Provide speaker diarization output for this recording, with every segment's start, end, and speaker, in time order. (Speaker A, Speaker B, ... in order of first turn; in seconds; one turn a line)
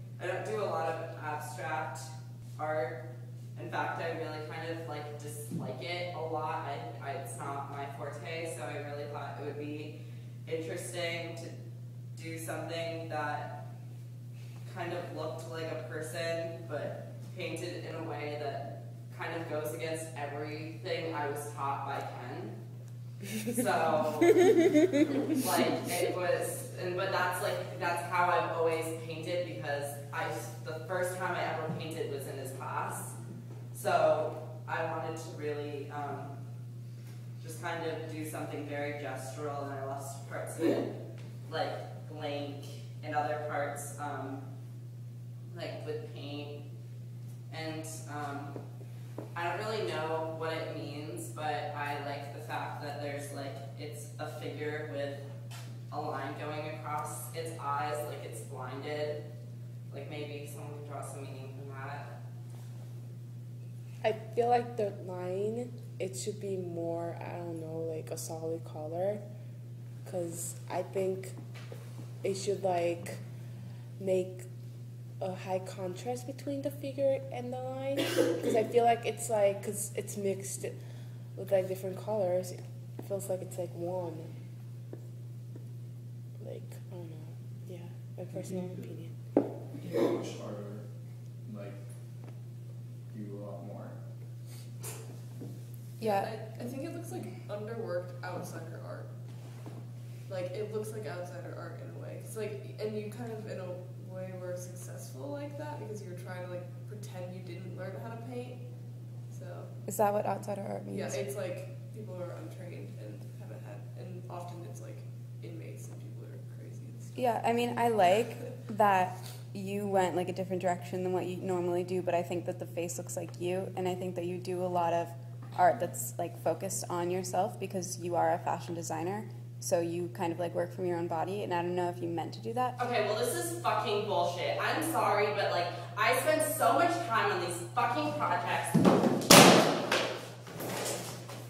Speaker A: 0.2-3.0
Speaker A: 3.5-11.5
Speaker A: 12.1-13.6
Speaker A: 14.7-22.6
Speaker A: 23.4-24.6
Speaker A: 25.2-33.1
Speaker A: 33.7-36.3
Speaker A: 37.4-40.9
Speaker A: 41.5-44.4
Speaker A: 45.5-46.6
Speaker A: 47.5-48.6
Speaker A: 49.3-55.2
Speaker A: 55.9-59.2
Speaker A: 59.9-62.1
Speaker B: 64.0-69.2
Speaker B: 70.0-71.3
Speaker B: 72.2-73.2
Speaker B: 74.0-74.5
Speaker B: 75.2-80.8
Speaker B: 81.3-84.3
Speaker B: 86.4-89.1
Speaker C: 88.4-89.0
Speaker C: 89.8-90.9
Speaker C: 91.4-91.8
Speaker C: 93.1-94.0
Speaker D: 96.0-96.3
Speaker E: 96.0-99.1
Speaker E: 100.2-108.7
Speaker E: 109.3-109.7
Speaker D: 109.9-111.3
Speaker E: 110.9-117.8
Speaker D: 117.1-132.8
Speaker A: 132.8-138.8